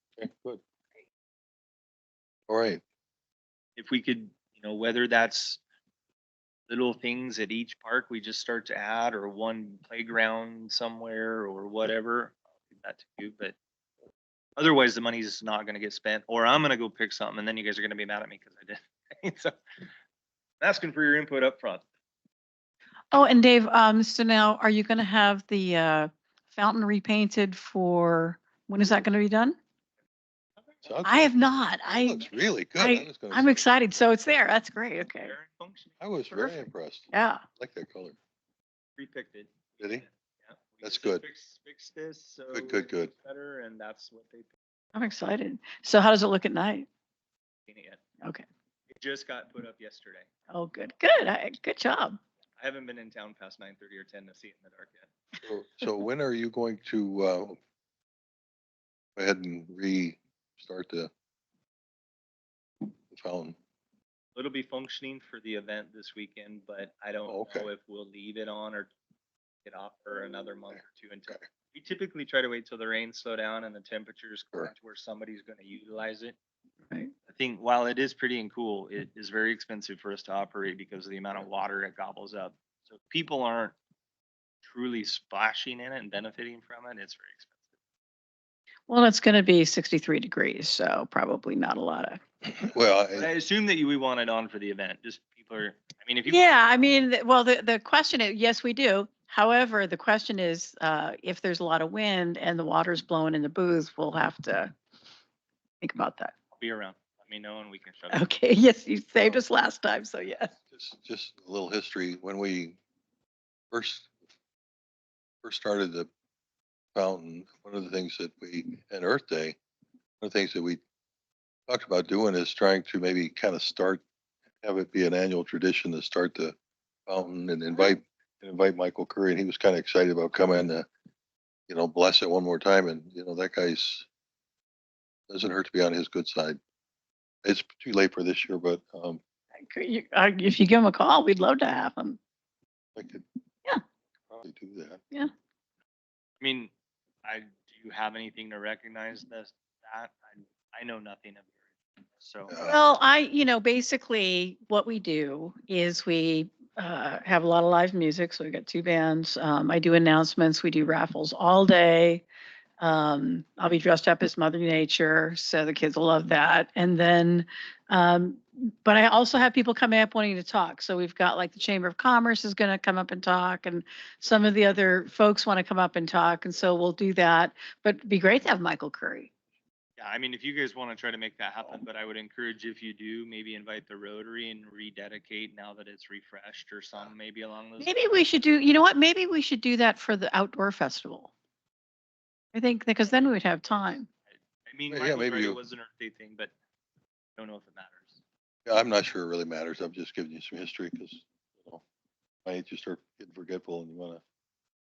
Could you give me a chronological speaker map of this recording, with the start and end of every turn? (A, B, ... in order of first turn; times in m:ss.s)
0:00.2-0:00.6 A
0:02.5-0:02.8 A
0:03.8-0:05.6 B
0:06.7-0:13.5 B
0:14.6-0:19.6 B
0:20.6-0:21.8 B
0:23.1-0:29.6 C
0:30.6-0:30.9 B
0:30.8-0:33.6 A
0:31.0-0:35.4 C
0:35.0-0:36.0 B
0:36.0-0:38.2 A
0:36.3-0:37.4 C
0:39.0-0:44.5 B
0:40.8-0:41.2 A
0:42.5-0:43.1 A
0:45.0-0:46.9 C
0:47.7-0:48.0 B
0:48.9-0:50.3 B
0:50.5-0:52.2 C
0:52.6-0:55.1 B
0:55.4-0:57.6 A
0:59.2-1:01.1 A
1:03.1-1:03.6 A
1:04.4-1:08.9 B
1:07.3-1:07.7 A
1:09.6-1:16.4 B
1:17.3-1:23.8 B
1:24.6-1:27.5 B
1:28.9-1:32.2 C
1:32.6-1:33.3 A
1:33.2-1:37.0 B
1:36.3-1:44.7 C
1:45.8-1:46.3 C
1:46.6-1:48.2 B
1:48.1-1:50.5 C
1:50.7-1:52.8 A
1:53.7-1:54.1 A
1:55.4-1:56.1 A
1:57.0-1:59.6 A
2:00.2-2:00.8 A
2:01.7-2:04.0 A
2:04.6-2:06.6 A
2:07.1-2:10.9 A
2:11.7-2:14.1 A
2:15.3-2:16.6 A
2:17.4-2:19.2 A
2:19.7-2:22.2 C
2:23.0-2:23.2 A
2:24.3-2:25.0 A
2:26.4-2:26.7 B
2:27.2-2:31.5 B
2:32.2-2:32.6 B
2:32.5-2:32.8 A
2:32.6-2:42.2 C
2:42.8-2:59.3 C
3:00.0-3:08.4 B
3:07.8-3:11.3 C
3:12.5-3:14.1 C
3:13.1-3:16.5 B
3:14.9-3:15.6 A
3:17.4-3:18.2 B
3:18.7-3:21.8 A
3:22.4-3:24.2 A